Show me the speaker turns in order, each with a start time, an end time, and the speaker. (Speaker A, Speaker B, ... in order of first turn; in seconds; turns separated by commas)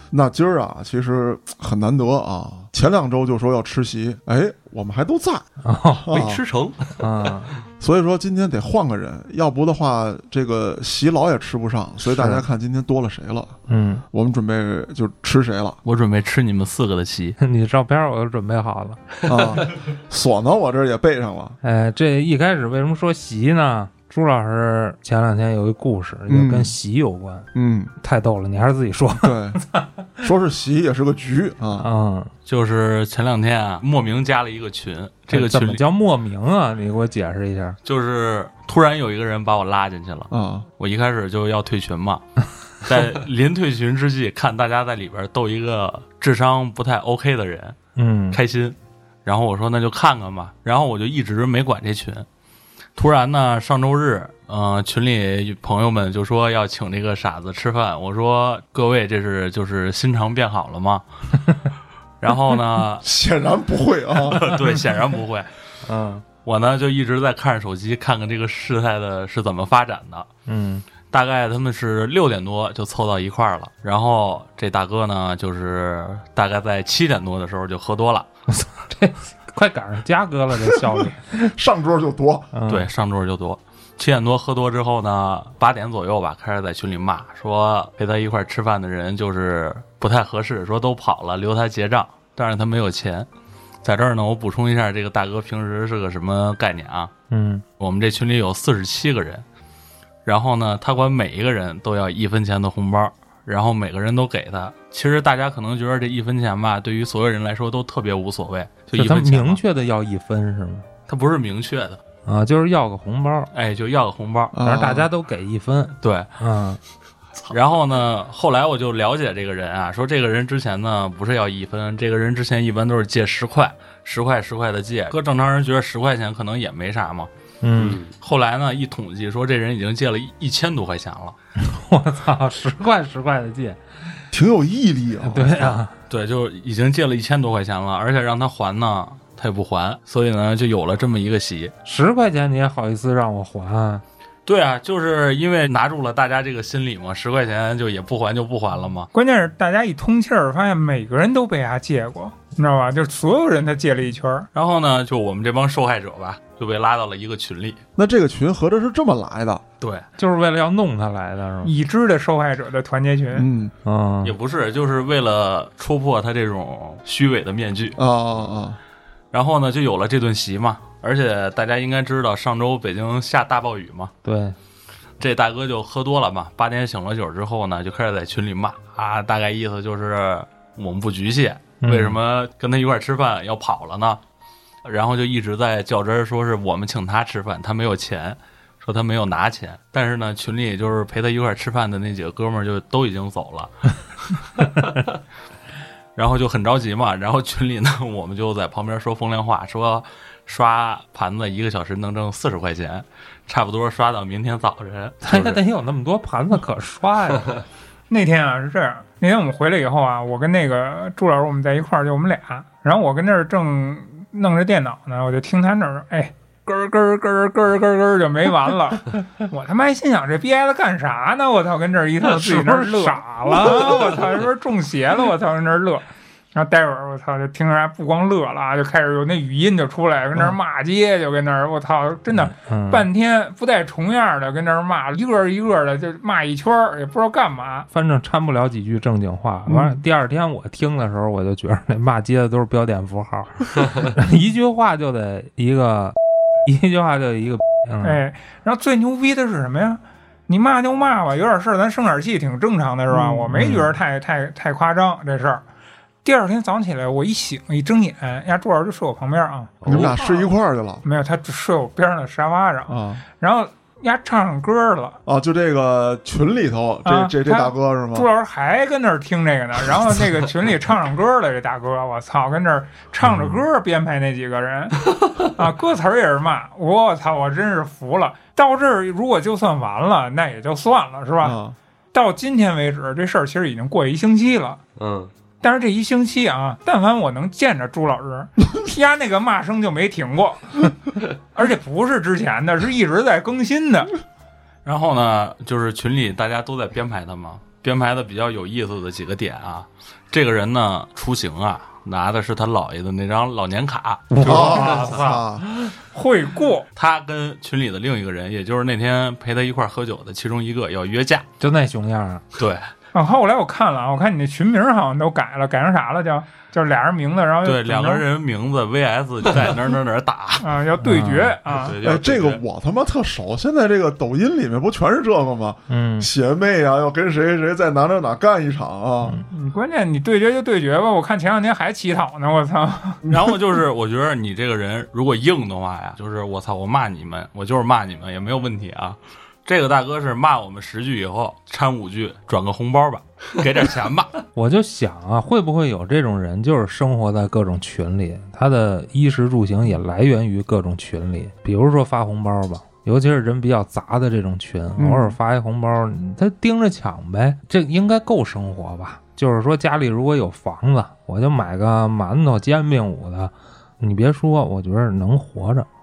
Speaker A: 0.1-6.4, Speaker B: 5.6-6.1, Speaker C: 6.1-7.0, Speaker B: 7.0-7.5, Speaker A: 7.8-13.6, Speaker B: 12.1-12.4, Speaker B: 13.7-14.0, Speaker A: 14.1-15.8, Speaker D: 15.8-17.4, Speaker B: 17.4-19.0, Speaker A: 19.2-21.6, Speaker B: 21.6-27.5, Speaker A: 26.3-26.7, Speaker A: 27.5-27.9, Speaker B: 28.0-29.8, Speaker A: 29.2-29.6, Speaker A: 30.2-31.9, Speaker B: 31.8-32.3, Speaker D: 32.5-35.8, Speaker B: 35.3-37.8, Speaker D: 37.8-42.2, Speaker A: 40.3-40.7, Speaker D: 42.8-47.8, Speaker B: 48.0-48.4, Speaker D: 48.3-52.2, Speaker D: 53.0-61.0, Speaker D: 62.2-63.0, Speaker A: 63.0-64.5, Speaker D: 64.3-65.5, Speaker B: 65.8-66.2, Speaker D: 66.4-70.3, Speaker B: 70.5-70.8, Speaker D: 71.1-78.3, Speaker B: 78.6-81.5, Speaker A: 81.5-82.5, Speaker B: 82.5-82.9, Speaker D: 82.7-93.3, Speaker D: 93.8-97.1, Speaker B: 97.3-97.6, Speaker D: 97.8-99.4, Speaker D: 100.2-109.6, Speaker B: 108.9-110.8, Speaker D: 111.1-112.0, Speaker B: 112.2-113.5, Speaker D: 113.5-114.5, Speaker A: 114.5-115.1, Speaker B: 114.6-116.8, Speaker D: 116.0-116.3, Speaker D: 117.5-127.3, Speaker B: 127.6-128.0, Speaker C: 127.8-128.1, Speaker D: 128.2-131.3, Speaker B: 131.6-133.8, Speaker A: 134.3-135.7, Speaker B: 135.2-135.9, Speaker D: 136.1-141.7, Speaker B: 141.8-144.0, Speaker D: 144.5-149.1, Speaker E: 149.1-154.5, Speaker D: 154.5-157.8, Speaker A: 157.9-159.6, Speaker D: 159.8-160.1, Speaker B: 160.2-161.7, Speaker E: 161.6-163.5, Speaker A: 163.3-163.7, Speaker B: 163.8-164.3, Speaker D: 164.2-168.0, Speaker A: 168.0-168.8, Speaker D: 169.3-174.1, Speaker B: 174.2-174.5, Speaker D: 175.2-184.2, Speaker B: 181.8-182.2, Speaker D: 184.8-195.0, Speaker D: 196.2-205.6, Speaker B: 205.2-207.5, Speaker E: 208.1-237.9, Speaker B: 222.2-224.2, Speaker B: 232.3-233.1, Speaker B: 237.9-248.2, Speaker A: 239.7-239.9, Speaker E: 248.0-255.6, Speaker A: 253.1-253.4, Speaker B: 253.5-253.9, Speaker E: 256.2-260.4, Speaker C: 259.8-260.1, Speaker A: 259.9-261.0, Speaker E: 261.0-265.2, Speaker A: 262.9-263.2, Speaker A: 265.2-268.3, Speaker E: 267.0-281.6, Speaker A: 281.4-281.7, Speaker E: 282.1-284.8, Speaker C: 285.0-285.3, Speaker E: 285.6-294.1, Speaker D: 294.8-305.1, Speaker B: 304.3-305.4, Speaker A: 304.4-305.7, Speaker E: 306.1-306.9, Speaker D: 306.9-311.5, Speaker B: 311.6-312.4, Speaker D: 312.5-312.9, Speaker E: 313.1-318.2, Speaker D: 317.6-320.7, Speaker E: 320.6-321.9, Speaker B: 321.0-321.6, Speaker D: 321.7-322.6, Speaker A: 322.0-329.4, Speaker B: 325.9-326.3, Speaker E: 329.5-333.2, Speaker D: 333.3-344.4, Speaker B: 344.5-365.9, Speaker A: 355.0-355.4